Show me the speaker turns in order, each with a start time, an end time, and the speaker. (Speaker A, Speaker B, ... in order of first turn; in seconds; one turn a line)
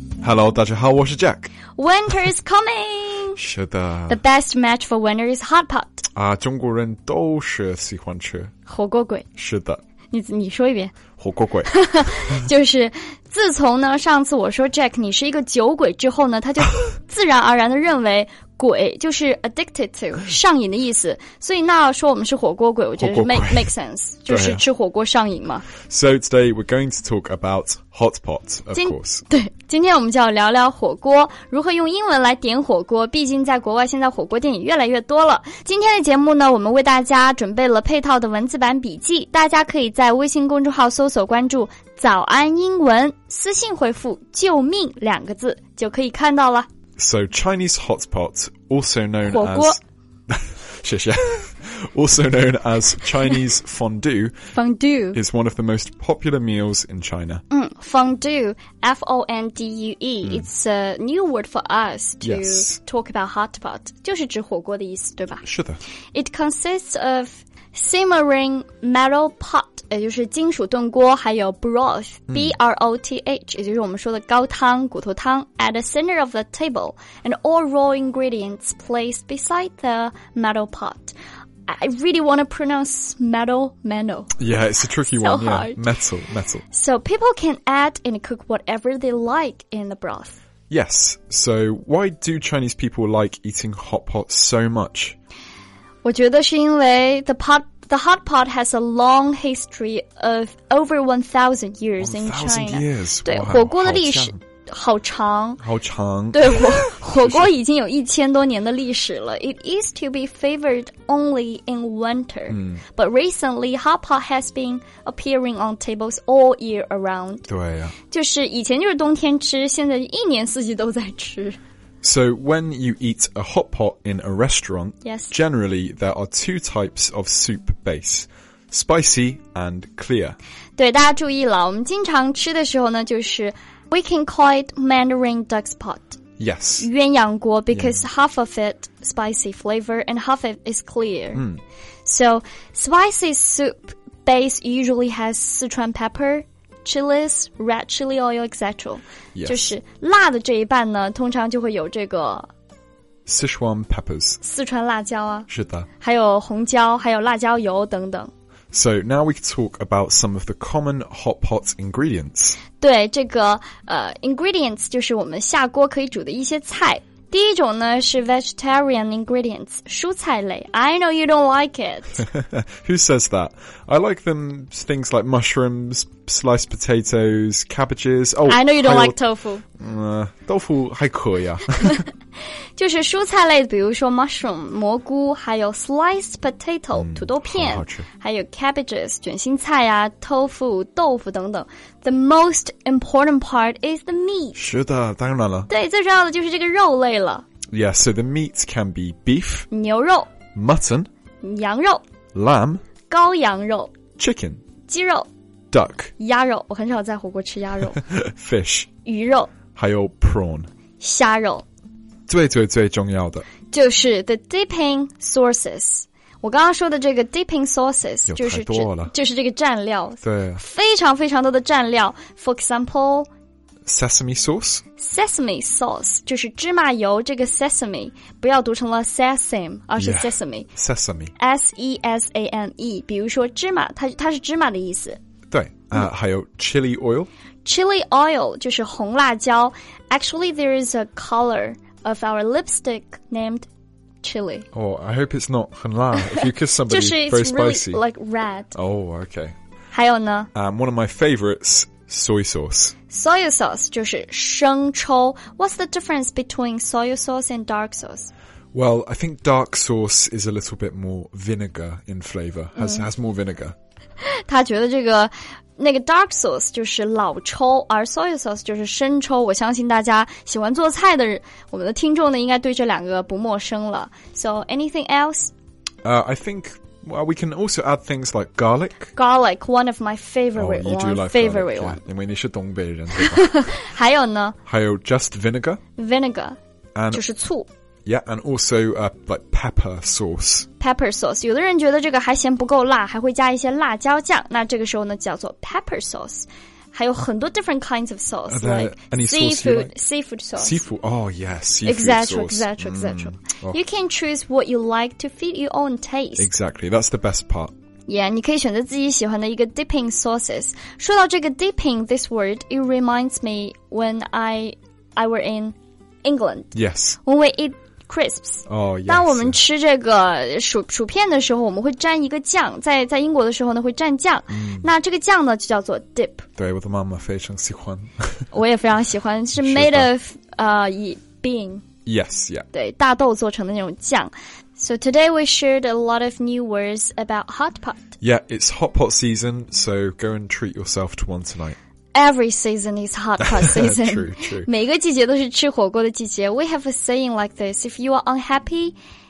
Speaker A: 0.2-1.5
Speaker B: 1.8-3.4
Speaker A: 3.4-4.2
Speaker B: 4.1-6.1
Speaker A: 6.2-8.5
Speaker B: 8.7-9.3
Speaker A: 9.4-9.8
Speaker B: 10.1-11.0
Speaker A: 11.2-12.5
Speaker B: 11.7-25.7
Speaker A: 22.9-23.7
Speaker A: 24.3-24.6
Speaker A: 25.8-29.2
Speaker B: 28.7-46.7
Speaker A: 47.0-54.6
Speaker B: 49.2-49.8
Speaker B: 54.5-55.2
Speaker A: 55.1-57.4
Speaker B: 57.5-65.4
Speaker A: 62.2-62.8
Speaker A: 65.4-65.8
Speaker B: 66.1-81.2
Speaker B: 81.7-84.4
Speaker A: 84.4-86.6
Speaker B: 84.9-85.8
Speaker B: 86.7-90.4
Speaker A: 90.7-95.2
Speaker B: 96.0-105.6
Speaker A: 102.0-104.4
Speaker A: 105.6-107.5
Speaker B: 106.3-117.5
Speaker A: 112.5-112.8
Speaker A: 117.5-118.0
Speaker B: 118.1-121.6
Speaker A: 122.0-130.4
Speaker B: 125.0-125.3
Speaker B: 130.8-136.2
Speaker A: 136.4-136.9
Speaker B: 136.8-141.4
Speaker A: 137.7-138.0
Speaker A: 141.3-141.6
Speaker B: 142.1-152.5
Speaker A: 149.3-149.8
Speaker A: 153.3-154.4
Speaker B: 154.4-158.3
Speaker A: 155.5-155.9
Speaker A: 158.7-162.6
Speaker B: 162.8-172.2
Speaker A: 172.2-179.2
Speaker B: 178.5-179.6
Speaker A: 179.8-182.0
Speaker B: 182.8-194.6
Speaker A: 186.9-188.1
Speaker A: 194.6-195.7
Speaker B: 195.7-197.4
Speaker A: 197.7-199.7
Speaker B: 199.7-200.3
Speaker A: 200.5-201.1
Speaker B: 201.4-202.0
Speaker A: 202.3-202.8
Speaker B: 203.1-203.9
Speaker A: 204.2-204.6
Speaker B: 204.9-205.3
Speaker A: 205.7-206.1
Speaker B: 206.2-208.1
Speaker A: 208.0-208.9
Speaker B: 209.1-209.5
Speaker A: 209.7-210.7
Speaker B: 211.0-211.7
Speaker A: 212.3-213.5
Speaker B: 213.7-223.3
Speaker A: 218.3-219.1
Speaker A: 220.2-220.6
Speaker A: 223.8-224.8
Speaker B: 225.0-230.7
Speaker A: 230.0-231.3
Speaker B: 231.4-235.2
Speaker A: 235.5-237.3
Speaker B: 237.7-243.7
Speaker B: 244.2-244.7
Speaker A: 244.7-248.0
Speaker B: 246.9-248.7
Speaker A: 248.7-249.6
Speaker B: 249.9-250.5
Speaker A: 250.5-252.9
Speaker B: 253.1-258.3
Speaker A: 258.7-263.8
Speaker B: 262.8-263.1
Speaker B: 264.2-275.5
Speaker A: 276.0-279.1
Speaker B: 279.1-282.0
Speaker A: 280.6-283.7
Speaker B: 283.1-284.6
Speaker A: 284.7-285.8
Speaker B: 286.0-286.6
Speaker A: 286.9-287.2
Speaker B: 287.1-287.7
Speaker A: 288.1-290.7
Speaker B: 290.8-300.8
Speaker A: 298.5-299.9
Speaker A: 300.6-303.8
Speaker B: 301.8-306.5
Speaker A: 306.4-307.7
Speaker B: 308.1-316.7
Speaker A: 316.7-317.2
Speaker B: 317.2-326.5
Speaker A: 318.7-319.6
Speaker A: 324.5-324.9
Speaker A: 326.6-328.5
Speaker B: 328.5-331.8
Speaker A: 329.6-330.1
Speaker A: 332.1-332.7
Speaker B: 332.7-338.1
Speaker A: 338.2-341.8
Speaker B: 342.1-349.0
Speaker A: 343.4-344.7